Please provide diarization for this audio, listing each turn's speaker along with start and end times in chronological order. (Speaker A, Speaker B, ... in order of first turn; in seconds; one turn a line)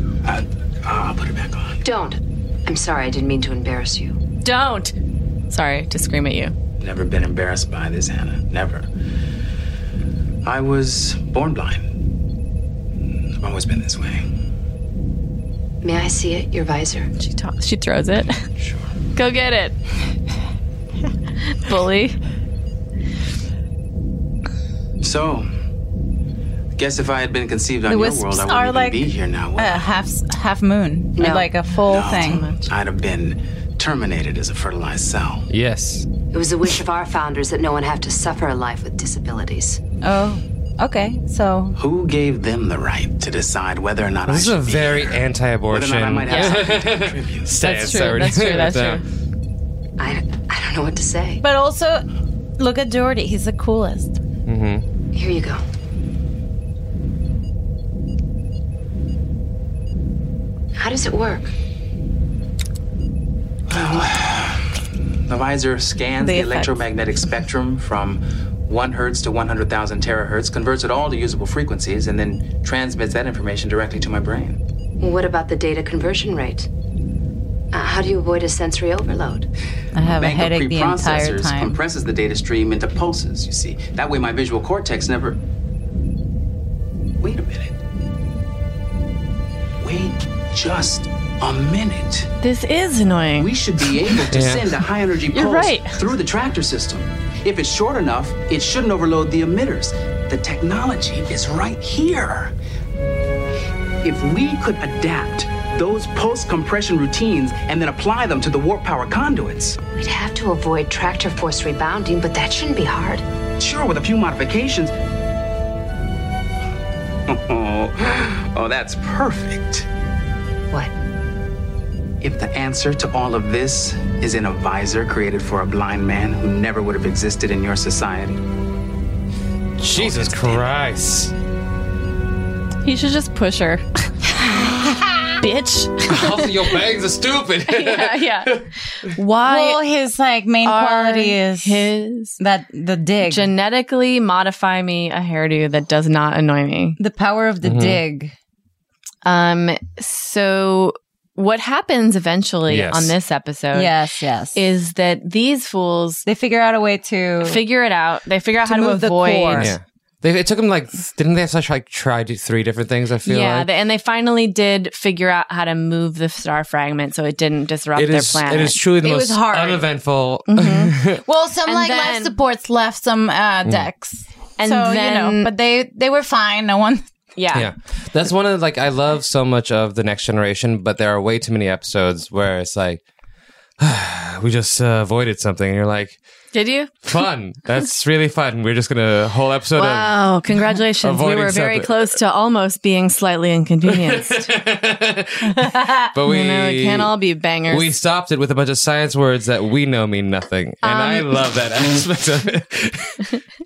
Speaker A: 0.2-1.8
Speaker B: 1.8-4.2
Speaker C: 4.4-4.9
Speaker C: 5.5-6.5
Speaker A: 6.8-8.9
Speaker A: 10.4-11.9
Speaker A: 13.4-14.2
Speaker B: 15.8-17.1
Speaker C: 17.2-18.4
Speaker C: 19.1-19.8
Speaker C: 21.5-22.2
Speaker A: 25.0-25.5
Speaker A: 26.8-29.9
Speaker D: 27.9-32.5
Speaker B: 31.1-31.5
Speaker A: 31.9-35.5
Speaker C: 32.0-32.7
Speaker E: 35.5-36.1
Speaker B: 36.3-39.8
Speaker D: 40.0-41.8
Speaker A: 41.8-47.5
Speaker E: 44.2-49.0
Speaker C: 46.3-46.6
Speaker C: 47.6-49.0
Speaker B: 50.0-51.4
Speaker D: 51.4-52.0
Speaker D: 52.6-54.1
Speaker E: 54.5-54.8
Speaker B: 55.1-55.6
Speaker B: 60.8-61.5
Speaker A: 63.7-64.6
Speaker B: 63.7-64.1
Speaker A: 65.3-74.6
Speaker D: 66.2-66.8
Speaker B: 75.0-76.7
Speaker B: 77.7-79.5
Speaker D: 79.9-81.8
Speaker A: 80.0-85.4
Speaker A: 87.2-87.8
Speaker A: 89.8-92.3
Speaker C: 92.4-93.5
Speaker A: 93.4-102.5
Speaker E: 94.3-94.8
Speaker C: 95.3-96.0
Speaker A: 104.0-109.8
Speaker B: 109.9-113.2
Speaker A: 113.6-114.9
Speaker A: 117.3-119.9
Speaker A: 122.2-128.4
Speaker E: 129.8-131.3
Speaker A: 129.9-130.7
Speaker C: 132.8-134.1
Speaker D: 134.5-135.3
Speaker C: 135.4-136.6
Speaker E: 136.1-138.6
Speaker C: 137.7-139.8
Speaker D: 139.4-143.5
Speaker C: 140.6-142.4
Speaker C: 143.2-147.0
Speaker D: 147.0-148.3
Speaker E: 147.6-148.0
Speaker C: 149.2-153.9
Speaker E: 152.7-153.1
Speaker D: 153.7-154.6
Speaker C: 154.5-156.2
Speaker D: 156.2-157.6
Speaker C: 157.4-159.7
Speaker D: 158.6-159.7
Speaker E: 159.6-163.7
Speaker C: 163.2-168.8
Speaker E: 167.9-171.2
Speaker D: 169.0-169.9
Speaker C: 170.5-170.9
Speaker D: 171.2-177.0
Speaker C: 171.7-172.3
Speaker C: 174.6-175.5
Speaker C: 177.3-177.7
Speaker E: 177.5-183.0
Speaker E: 183.8-186.2
Speaker C: 186.5-187.0
Speaker E: 187.0-190.4
Speaker C: 189.8-194.5
Speaker E: 191.0-192.2
Speaker E: 193.9-197.1
Speaker C: 196.2-197.9
Speaker E: 197.7-203.3
Speaker C: 200.8-201.3